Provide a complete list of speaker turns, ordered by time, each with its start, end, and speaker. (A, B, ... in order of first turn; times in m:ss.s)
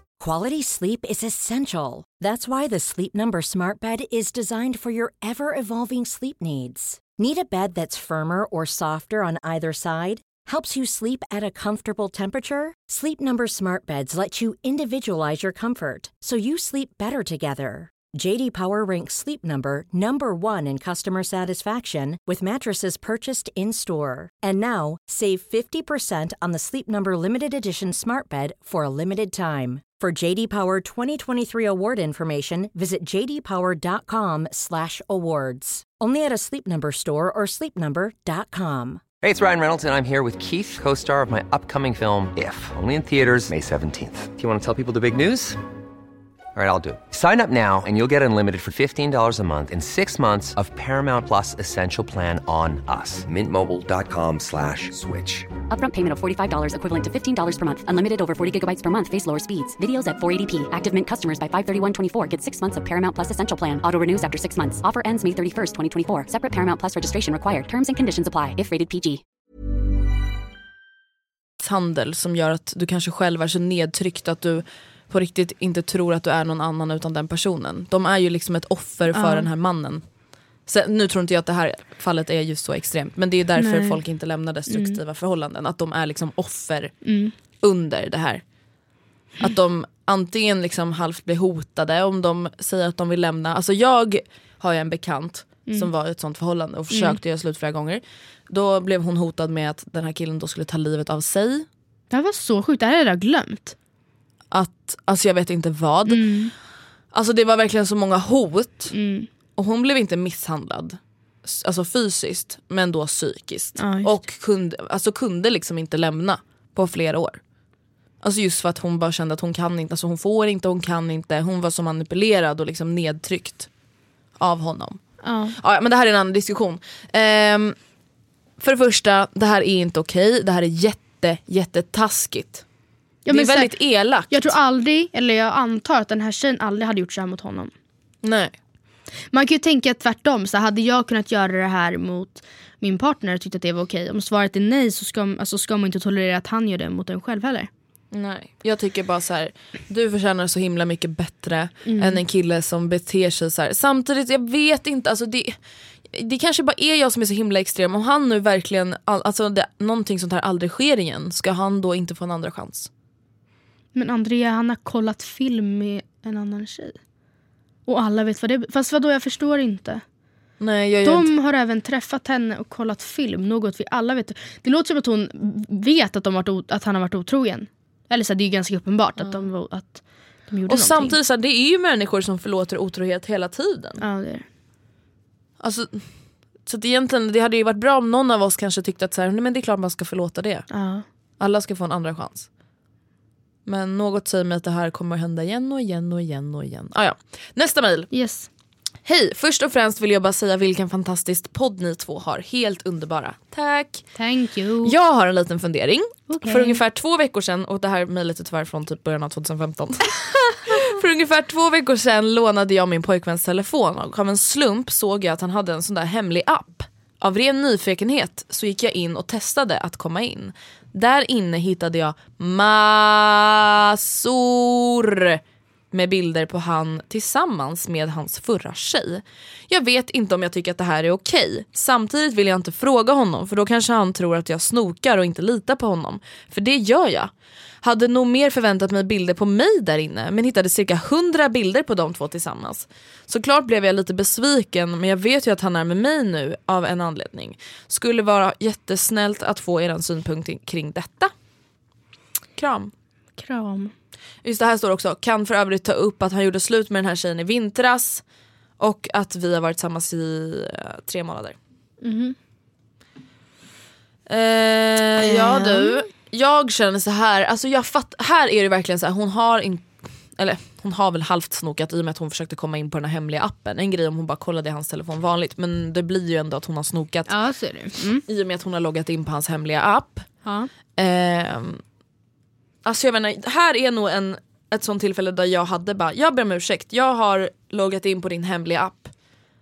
0:00.2-0:39.0 A
0:39.2-0:45.6 B
0:46.5-0:55.5 B
0:55.7-1:09.2 C
1:11.6-1:20.0 D
1:19.1-1:19.5 E
1:20.6-1:28.4 D
1:23.6-1:24.0 E
1:24.7-1:25.0 E
1:27.0-1:27.3 E
1:29.4-1:41.6 D
1:36.9-1:37.2 E
1:42.1-1:43.8 E
1:44.5-1:46.4 D
1:46.1-1:46.5 E
1:47.1-1:48.9 D
1:48.9-1:49.3 E
1:49.6-1:57.4 D
1:53.8-1:54.1 E
1:58.2-2:03.7 D
2:04.4-2:07.8 D
2:05.2-2:05.5 E
2:08.6-2:12.6 D
2:13.2-2:13.7 E
2:13.3-2:14.5 D
2:14.3-2:17.7 E
2:18.2-2:18.5 D
2:19.3-2:27.7 E
2:28.1-2:35.6 D
2:31.8-2:32.2 E
2:36.1-2:42.9 D
2:43.9-2:47.0 E
2:47.9-2:50.0 E
2:50.6-2:51.3 D
2:51.0-3:01.2 E
3:00.7-3:04.0 D
3:04.0-3:04.4 E
3:05.6-3:10.7 D
3:10.7-3:11.0 E
3:11.4-3:12.5 D
3:13.6-3:18.1 D
3:18.1-3:18.5 E
3:19.0-3:24.1 D
3:24.1-3:24.9 E
3:24.8-3:45.4 D
3:26.3-3:26.8 E
3:45.9-3:57.3 D
3:57.8-4:11.3 D
4:12.6-4:12.9 D
4:13.4-4:13.9 E
4:14.4-4:18.2 D
4:18.8-4:21.6 D
4:22.0-4:22.4 E
4:24.3-4:37.3 D
4:25.2-4:26.0 E
4:37.3-4:38.2 E
4:38.2-4:40.3 D
4:40.4-4:40.7 E
4:41.0-4:41.8 D
4:42.8-4:49.1 D